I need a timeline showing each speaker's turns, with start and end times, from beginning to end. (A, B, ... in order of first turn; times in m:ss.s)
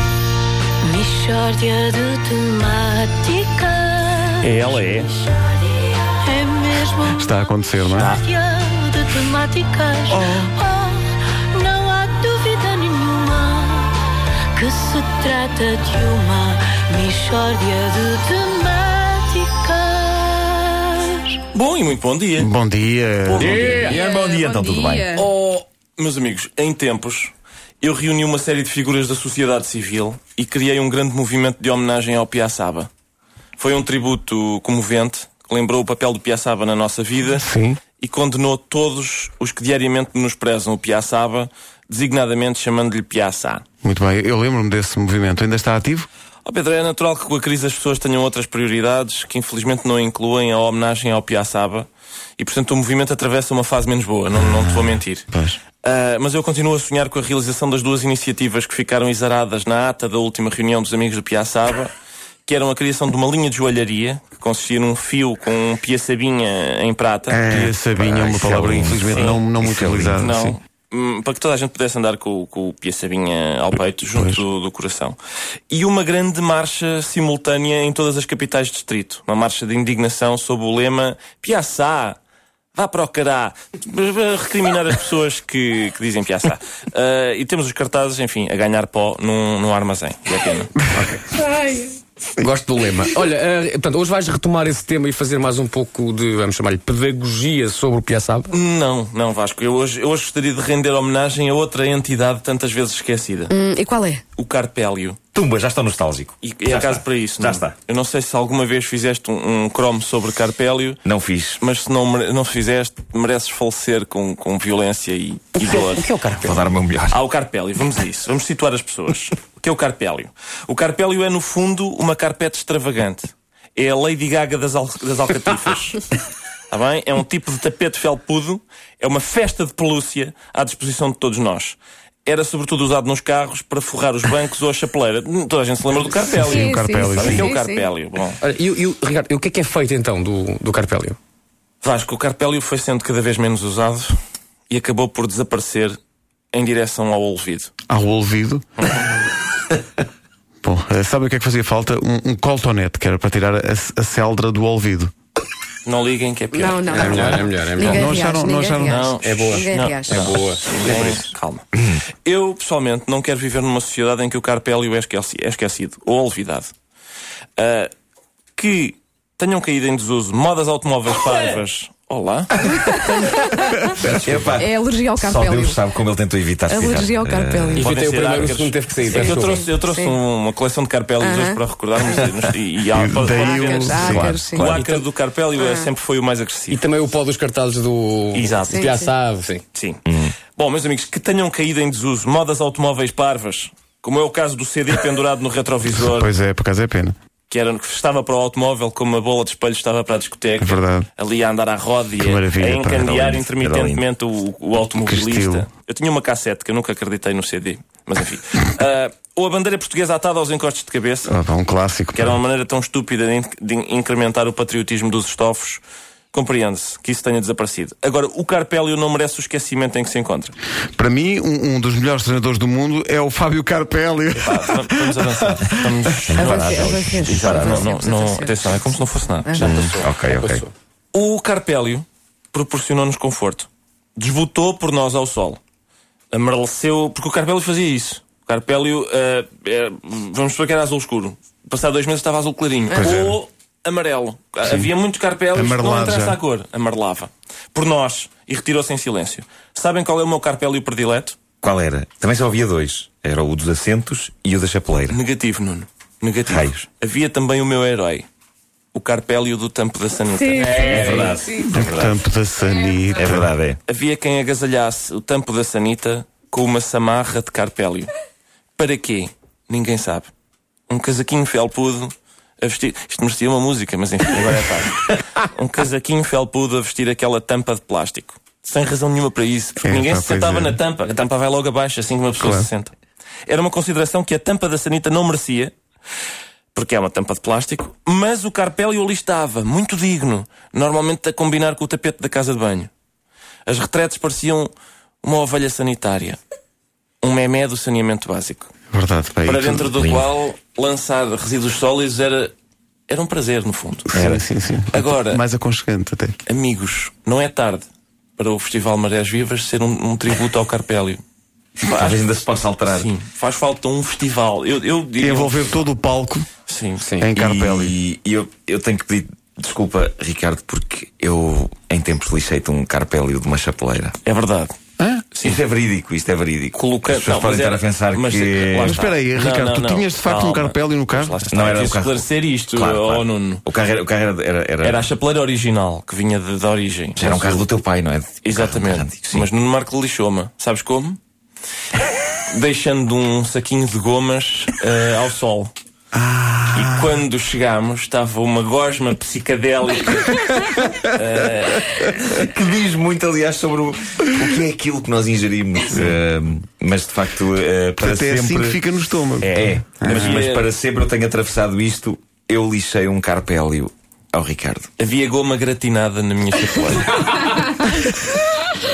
0:00.8-0:04.5 A
0:04.4-0:05.1 B
0:05.1-0:21.4 A
0:07.1-0:08.1 C
0:07.8-0:08.2 B
0:10.1-0:10.5 C
0:21.5-0:22.5 B
0:22.4-0:23.6 C
0:23.3-0:24.0 B
0:23.4-0:24.0 D
0:23.4-0:25.2 E
0:24.1-0:25.1 A
0:25.1-0:25.6 D
0:26.0-0:32.9 B
0:33.6-0:37.5 B
0:37.4-0:37.8 C
0:38.0-0:43.6 B
0:43.8-0:46.1 C
0:46.4-0:55.3 B
0:54.4-0:55.6 C
0:55.8-1:01.9 B
1:02.4-1:07.4 B
1:07.3-1:10.6 C
1:07.5-1:10.3 E
1:09.1-1:09.4 B
1:10.2-1:15.2 B
1:14.1-1:14.4 C
1:15.7-1:22.2 B
1:22.7-1:30.8 B
1:31.0-1:31.7 D
1:32.4-1:38.5 D
1:38.5-1:43.5 B
1:43.5-1:44.2 F
1:44.4-1:45.2 B
1:45.3-1:47.8 E
1:46.4-1:51.0 B
1:51.0-1:51.6 E
1:51.6-1:56.1 B
1:55.6-1:56.6 D
1:56.4-1:57.2 E
1:57.1-2:06.1 B
2:06.7-2:18.4 B
2:16.3-2:17.5 C
2:16.5-2:17.9 F
2:18.4-2:21.2 D
2:21.8-2:24.2 B
2:24.7-2:26.0 B
2:26.5-2:27.7 B
2:27.9-2:28.6 C
2:28.8-2:29.0 B
2:30.6-2:35.1 C
2:35.8-2:37.4 B
2:36.5-2:37.0 F
2:36.9-2:38.3 D
2:36.9-2:39.1 C
2:37.8-2:40.2 F
2:38.8-2:41.6 B
2:39.1-2:41.3 D
2:41.8-2:42.0 E
2:42.2-2:46.7 B
2:47.6-2:47.9 B
2:48.6-2:52.6 B
2:52.7-2:53.8 F
2:53.6-2:54.2 C
2:54.0-2:57.9 E
2:54.5-2:55.8 F
2:56.7-2:57.8 F
2:57.7-2:59.7 D
2:57.8-3:06.8 B
2:59.2-3:00.1 F
3:01.2-3:01.6 F
3:02.9-3:04.4 C
3:03.3-3:04.7 F
3:04.1-3:04.8 E
3:04.6-3:05.0 D
3:05.6-3:05.9 F
3:06.7-3:09.6 D
3:08.3-3:08.9 B
3:08.7-3:09.0 F
3:09.7-3:10.0 B
3:10.1-3:10.3 E
3:10.5-3:16.3 B
3:15.9-3:17.1 C
3:17.5-3:31.3 B
3:20.6-3:21.1 C
3:22.2-3:23.3 C
3:23.4-3:24.0 E
3:25.0-3:25.7 C
3:31.3-3:32.3 C
3:32.1-3:35.8 B
3:36.3-3:40.5 B
3:41.0-3:45.8 C
3:44.4-3:49.9 B
3:46.3-3:47.9 E
3:46.3-3:49.9 F
3:49.6-3:50.6 E
3:49.8-3:50.7 D
3:51.1-3:55.6 B
3:56.3-4:11.4 B
4:02.9-4:03.4 C
4:05.5-4:06.4 C
4:11.6-4:15.2 E
4:15.1-4:18.3 B
4:16.4-4:16.8 E
4:18.9-4:21.4 B
4:20.6-4:22.2 E
4:21.6-4:23.5 C
4:23.2-4:23.8 E
4:23.9-4:28.1 B
4:28.8-4:30.3 B
4:30.9-4:42.9 B
4:39.8-4:40.8 C
4:42.4-4:42.7 C
4:43.5-4:45.7 B
4:46.7-4:52.9 B
4:53.7-4:56.4 B
4:57.2-4:58.7 B
4:58.9-4:59.9 C
4:59.4-5:02.5 B
5:00.0-5:00.3 E
5:03.1-5:04.1 B
5:04.1-5:06.4 C
5:04.1-5:04.4 E
5:04.9-5:05.4 B
5:06.5-5:07.9 B
5:08.4-5:11.2 B
5:11.8-5:12.2 B
5:11.9-5:13.1 E
5:12.8-5:15.9 B
5:15.2-5:16.5 C
5:16.7-5:17.1 B
5:17.0-5:17.3 D
5:17.2-5:17.9 C
5:17.3-5:24.2 E
5:24.2-5:24.8 B
5:25.0-5:25.2 C
5:25.3-5:25.6 B
5:25.4-5:29.0 E
5:26.7-5:33.6 B
5:28.8-5:31.4 C
5:31.5-5:35.0 E
5:34.8-5:37.6 B
5:37.2-5:39.5 E
5:38.4-5:41.2 B
5:42.5-5:45.7 B
5:46.1-5:47.2 C
5:46.7-5:52.1 B
5:52.2-5:58.8 E
5:58.0-6:00.4 C
5:59.4-6:04.9 E
6:00.0-6:00.7 B
6:05.0-6:07.6 B